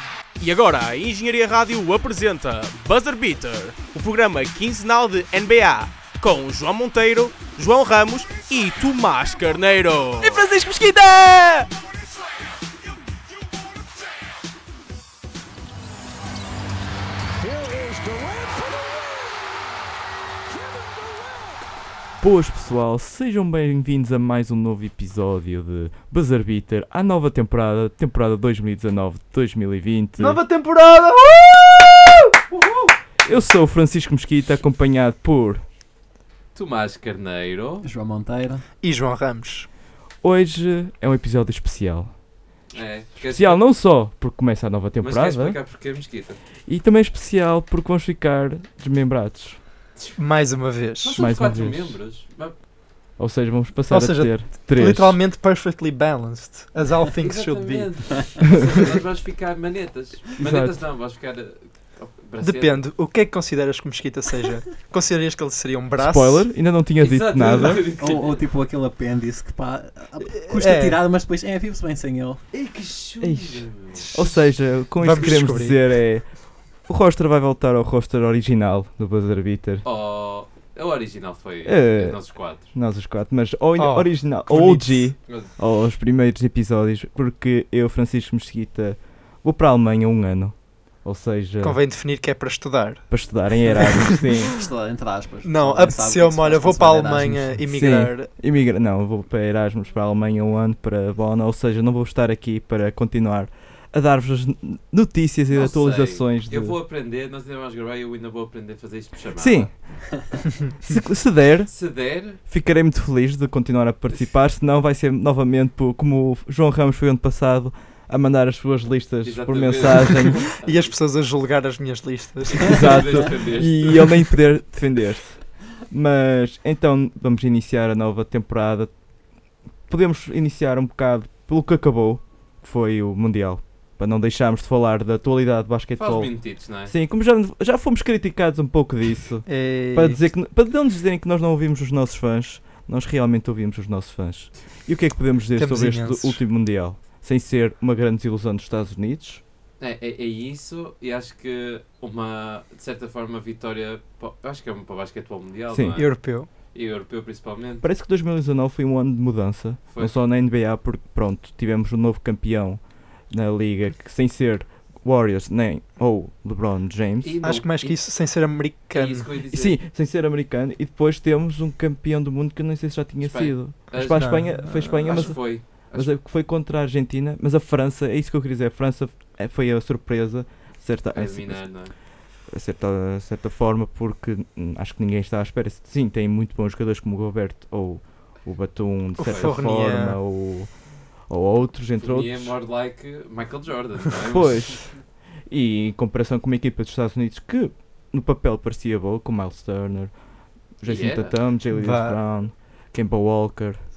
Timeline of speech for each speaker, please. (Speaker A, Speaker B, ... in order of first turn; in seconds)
Speaker A: 0.4-10.7
Speaker B: 10.2-11.7, 22.2-30.4, 33.3-35.6, 40.2-42.1, 43.2-45.6, 46.7-49.6, 51.2-52.0, 53.2-55.2, 60.4-60.8, 66.0-67.9, 73.2-76.3, 76.9-79.8, 81.7-82.2, 82.7-91.8, 93.1-94.5, 97.7-106.8, 109.4-109.7, 110.8-111.8, 112.3-120.5, 122.6-128.9, 129.9-149.4, 155.7-156.0, 157.8-167.3, 169.5-181.6, 182.5-190.7, 191.3-192.5, 194.3-194.9, 195.5-200.1, 200.8-203.8
Speaker C: 30.2-33.0, 38.8-39.7, 50.2-51.1, 53.9-58.1, 62.4-66.5, 70.3-71.0, 75.0-75.8, 83.8-85.1, 91.6-93.1, 95.4-98.3, 120.6-123.5, 139.5-140.2, 145.6-146.4, 155.9-156.5, 167.4-169.3, 174.1-175.3, 189.2-190.2, 201.7-202.2
Speaker D: 36.5-37.9, 42.7-43.6, 45.0-46.4, 51.0-52.6, 57.2-62.9, 67.0-68.4, 72.5-74.3, 79.8-82.7, 85.3-85.5, 105.5-109.7, 111.7-112.4, 119.2-121.0, 122.5-124.2, 136.0-136.9, 149.8-157.9, 159.9-160.2, 167.2-168.0, 168.9-169.8, 173.2-176.1, 181.1-181.9, 189.2-189.6, 192.0-194.8, 200.8-201.4
Speaker E: 37.8-38.7, 67.9-72.4, 94.4-97.6